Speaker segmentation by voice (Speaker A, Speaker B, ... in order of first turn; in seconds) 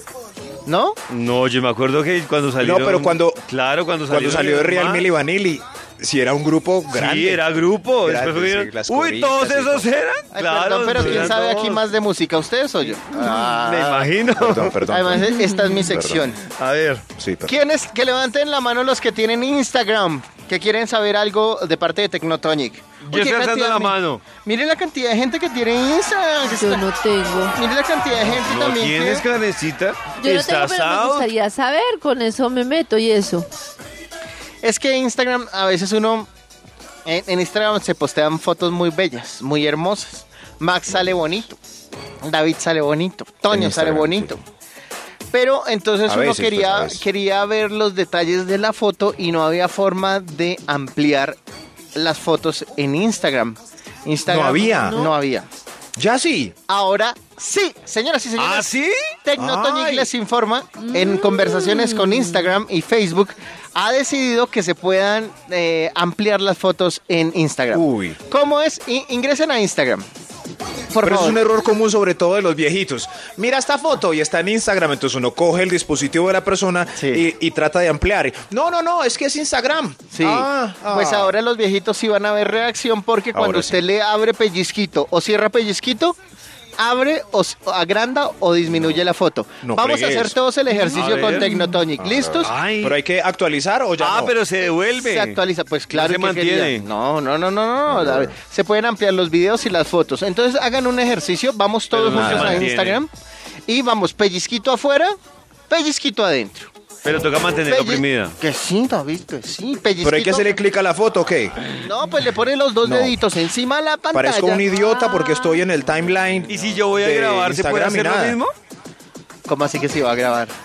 Speaker A: 0.7-1.0, 10.3-16.4, 17.5-26.9, 27.5-29.2, 34.6-36.3, 37.0-41.6, 42.2-44.4, 45.3-51.4, 51.9-55.5, 56.7-58.7, 59.2-70.1, 70.9-71.4, 77.0-77.2, 80.1-86.2, 86.8-92.5, 95.0-103.1, 103.7-105.1, 105.7-106.7, 107.7-110.5, 111.8-114.7, 119.5-120.5
Speaker B: 1.1-5.1, 6.9-11.8, 12.9-14.8, 16.4-17.0, 23.0-24.2, 28.3-31.3, 58.4-59.0, 90.9-91.5, 92.4-93.0, 94.0-96.9, 101.9-103.0, 107.0-108.3, 116.5-118.5
Speaker C: 2.6-3.4, 4.1-7.4, 8.0-9.9, 14.3-16.3, 17.2-17.6, 43.5-44.3, 46.1-47.0, 54.2-55.1, 56.0-56.6, 59.4-60.1, 67.7-68.2, 71.0-81.3, 83.3-83.8, 88.7-89.0, 89.6-90.4, 92.0-94.3, 97.9-98.3, 102.1-102.7, 110.0-111.6, 112.8-113.2, 114.1-118.4
Speaker D: 15.2-15.9, 26.5-27.6, 30.2-33.5, 54.9-55.2, 60.9-62.5, 90.9-91.8, 115.0-115.6